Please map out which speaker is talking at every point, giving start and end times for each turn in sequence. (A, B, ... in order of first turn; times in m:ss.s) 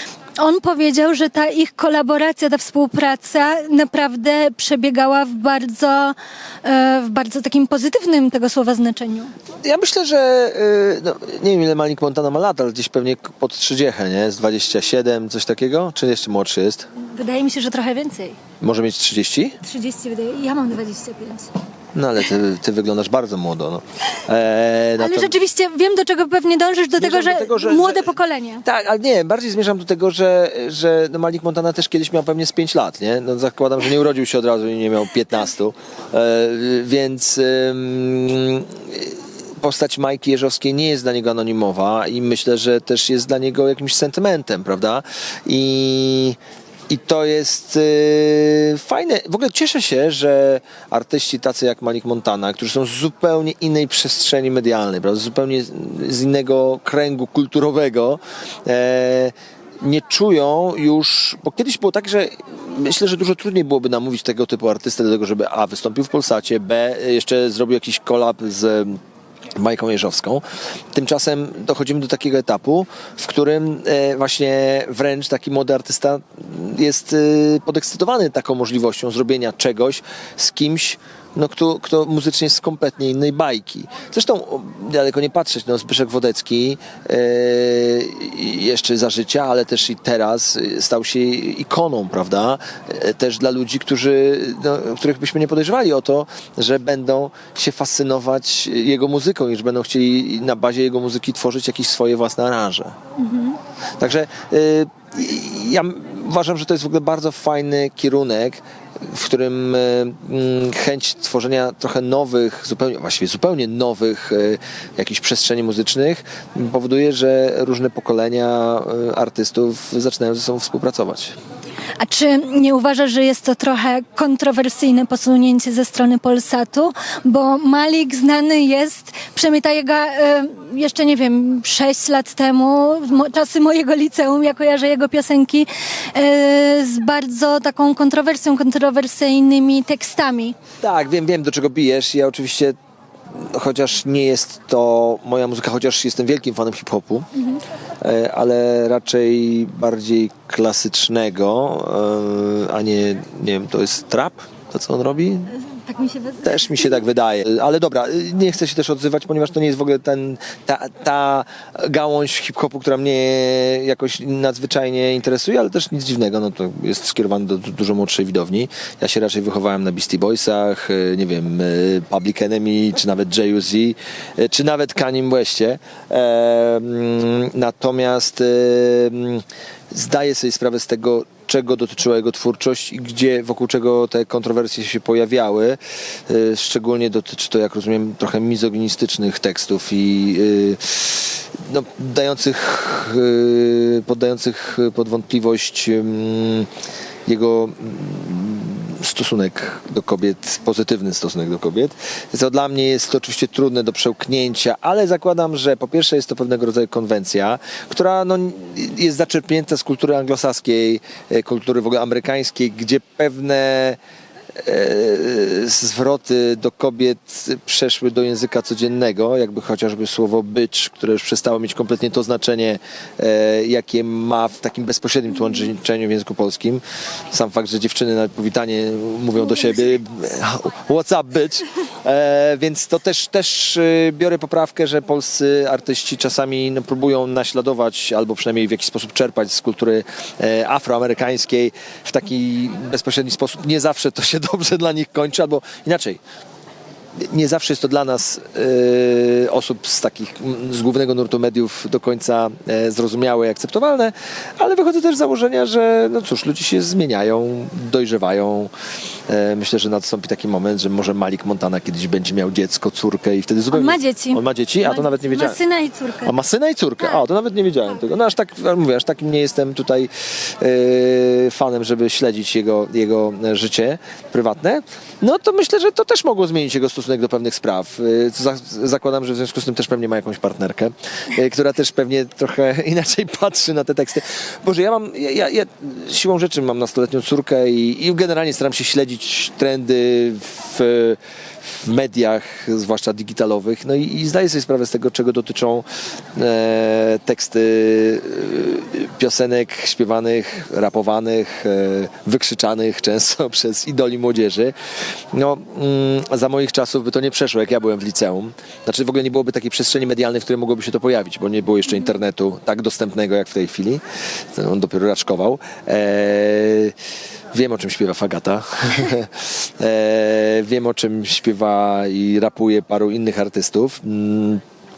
0:00.4-0:09.3 A
0:09.6-0:16.9 B
0:17.0-0:18.4 A
0:18.6-0:19.6 B
0:19.6-0:21.5 A
0:21.9-0:25.4 B
0:25.0-0:28.6 A
0:27.0-1:09.0 B
1:09.6-1:43.0 B
1:43.2-1:43.6 A
1:44.0-2:01.4 B
2:02.0-2:20.6 A
2:20.8-2:22.8 B
2:23.3-2:27.3 B
2:28.0-2:35.5 B
2:35.6-2:36.8 A
2:36.4-3:16.7 B
3:17.2-3:34.0 B
3:34.6-4:06.2 B
4:07.2-4:18.7 B
4:19.3-4:25.6 B
4:23.7-4:26.3 A
4:26.2-5:04.7 B
5:05.3-5:14.0 B
5:14.5-5:16.9 B
5:17.5-5:24.6 B